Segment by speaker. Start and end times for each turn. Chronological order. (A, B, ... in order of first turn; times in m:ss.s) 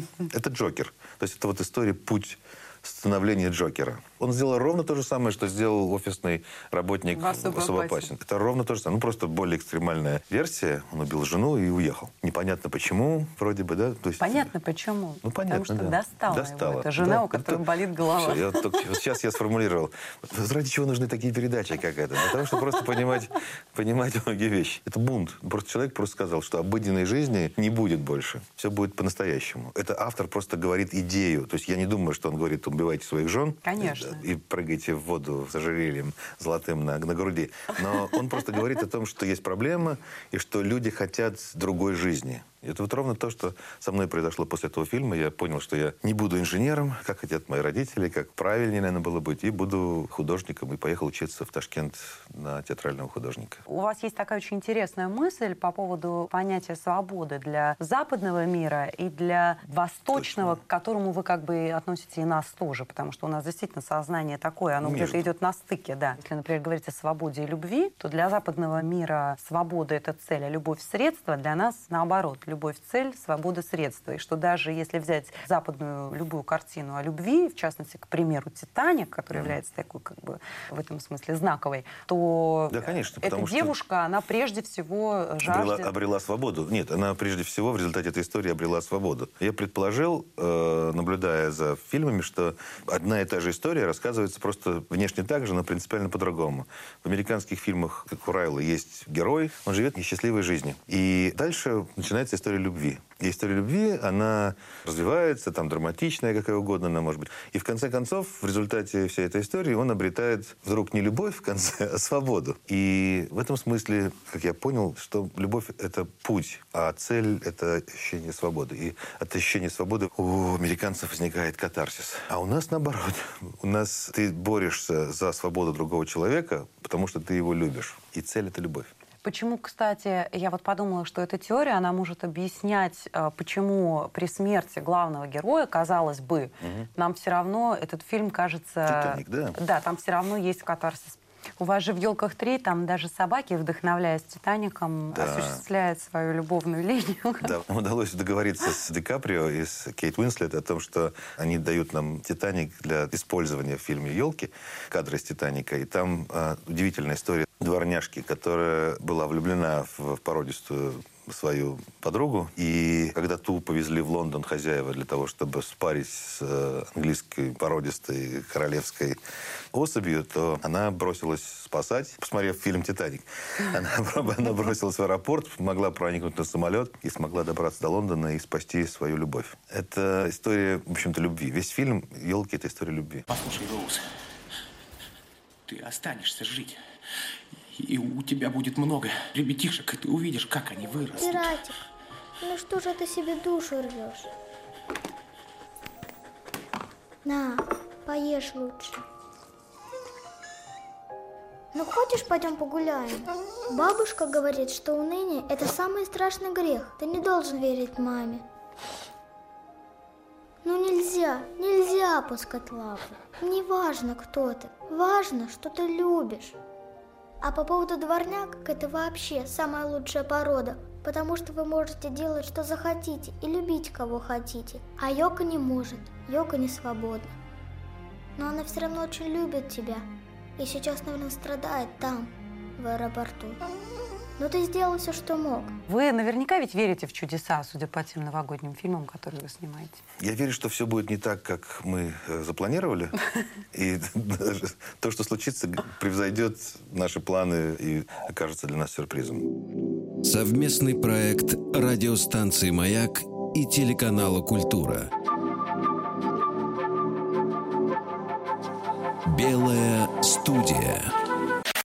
0:00.2-0:14.5 A
0:07.1-0:08.1 B
0:14.2-0:18.9 B
0:15.2-0:53.6 A
0:33.6-0:34.2 B
0:53.7-1:25.9 B
1:00.1-1:00.6 A
1:04.8-1:05.3 A
1:22.7-1:23.7 A
1:25.4-2:08.9 A
2:09.2-2:27.6 B
2:16.6-2:16.9 A
2:18.9-2:19.6 A
2:25.1-2:25.6 A
2:27.4-2:49.2 A
2:49.7-3:03.3 A
3:03.3-3:04.0 C
3:05.7-3:06.8 C
3:07.8-3:11.5 C
3:11.1-3:11.8 D
3:12.4-3:14.3 D
3:17.2-3:19.0 D
3:21.7-3:28.4 D
3:30.6-3:36.6 D
3:37.4-3:47.3 D
3:48.4-3:50.0 D
3:50.6-3:53.6 D
3:54.4-3:55.8 D
3:55.9-4:00.0 B
4:00.2-4:03.2 A
4:03.7-4:09.5 A
4:10.2-4:15.1 E
4:19.3-4:21.1 E